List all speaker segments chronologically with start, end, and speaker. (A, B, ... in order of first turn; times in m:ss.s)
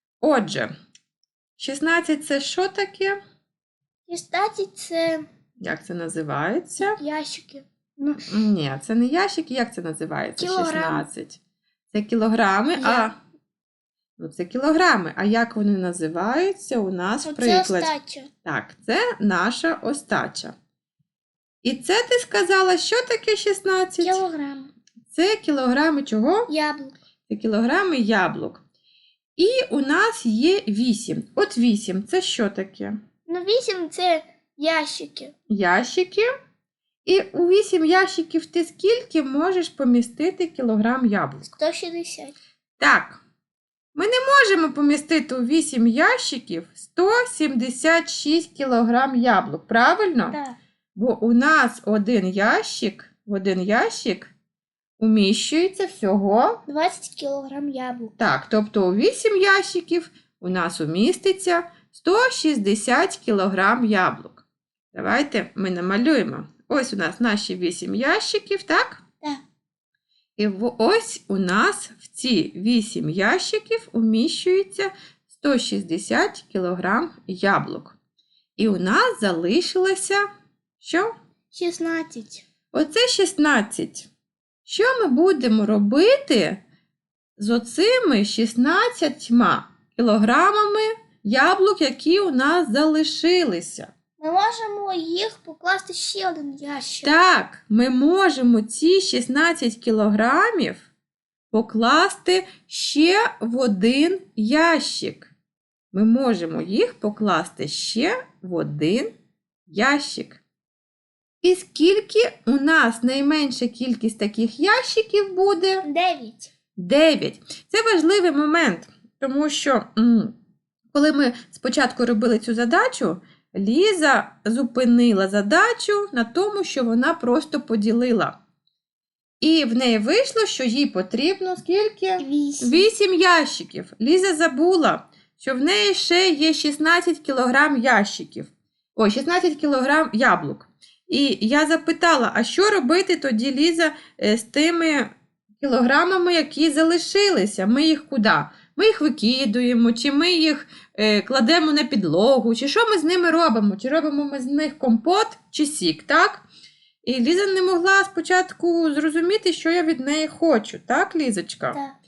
0:00.2-0:00.7 A
0:01.6-0:03.2 A
0:04.1-0:05.2 B
0:05.6-0:07.0 A
0:06.8-0:08.3 B
0:08.3-0:11.4 A
0:10.4-0:11.0 B
0:11.9-0:13.2 A
0:12.8-0:13.1 B
0:14.2-0:17.9 A
0:17.2-0:18.3 B
0:18.4-0:20.6 A
0:21.6-0:24.2 A
0:24.0-0:24.7 B
0:25.1-0:26.5 A
0:26.5-0:27.0 B
0:27.3-0:28.6 A
0:29.4-0:33.0 A
0:33.3-0:35.3 B
0:35.5-0:36.3 A
0:37.0-0:41.5 A
0:41.6-0:42.4 B
0:42.8-0:43.2 A
0:44.0-0:50.4 A
0:50.3-0:50.6 B
0:51.0-0:54.3 A
0:55.0-0:56.6 A
0:56.7-0:58.1 B
0:58.2-1:09.0 A
1:10.4-1:18.0 A
1:18.6-1:20.2 A
1:20.8-1:21.2 A
1:21.5-1:22.4 B
1:22.7-1:24.1 A
1:24.7-1:26.6 A
1:27.4-1:33.9 A
1:34.2-1:37.1 B
1:37.0-1:40.9 A
1:41.5-1:45.3 A
1:45.9-1:49.1 A
1:49.7-1:50.4 A
1:51.4-1:55.8 A
1:55.8-1:56.5 B
1:56.8-2:00.3 A
2:00.9-2:08.4 A
2:09.4-2:36.5 A
2:12.2-2:12.9 B
2:37.0-2:41.8 A